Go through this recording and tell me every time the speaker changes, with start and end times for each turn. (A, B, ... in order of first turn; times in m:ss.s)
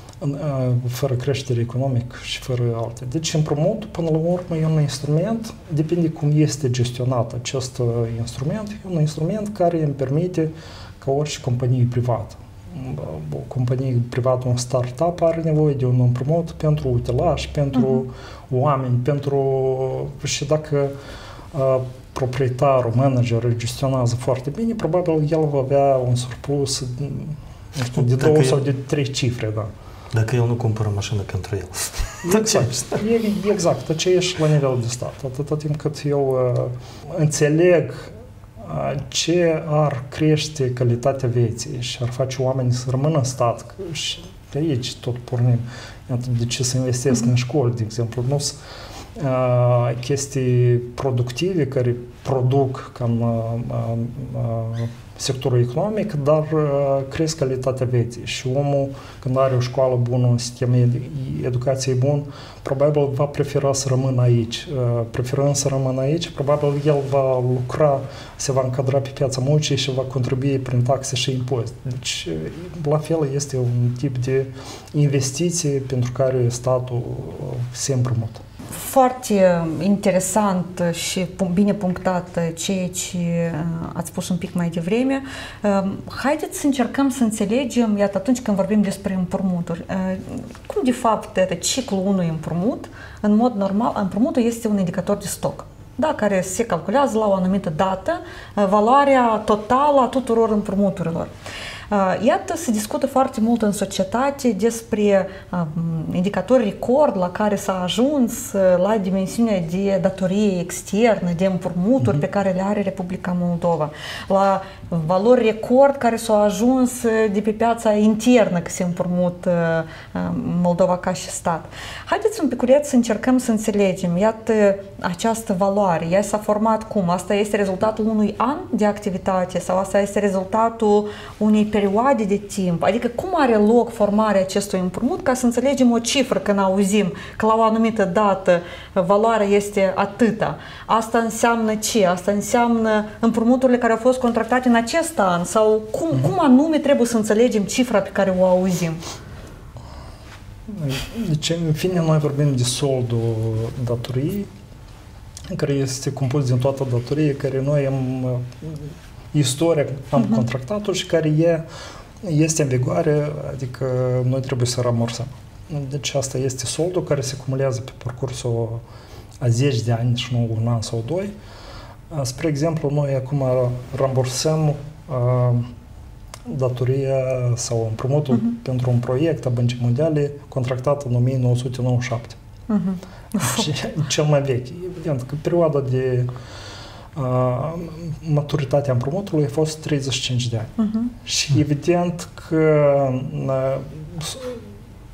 0:00.2-0:20.9 A
0:21.5-0:29.7 A
0:28.0-0:28.6 B
0:30.1-0:33.0 B
0:32.2-0:48.6 A
0:49.2-1:18.4 A
1:18.7-1:41.3 C
1:41.9-2:29.0 C
2:30.7-2:34.5 A
2:35.5-2:41.6 A
2:42.2-2:48.8 A
2:49.4-2:51.3 A
2:52.1-2:55.7 A
2:56.4-3:02.4 A
3:02.7-3:03.7 C
3:03.4-3:06.3 A
3:07.1-3:14.6 A
3:10.8-3:11.1 C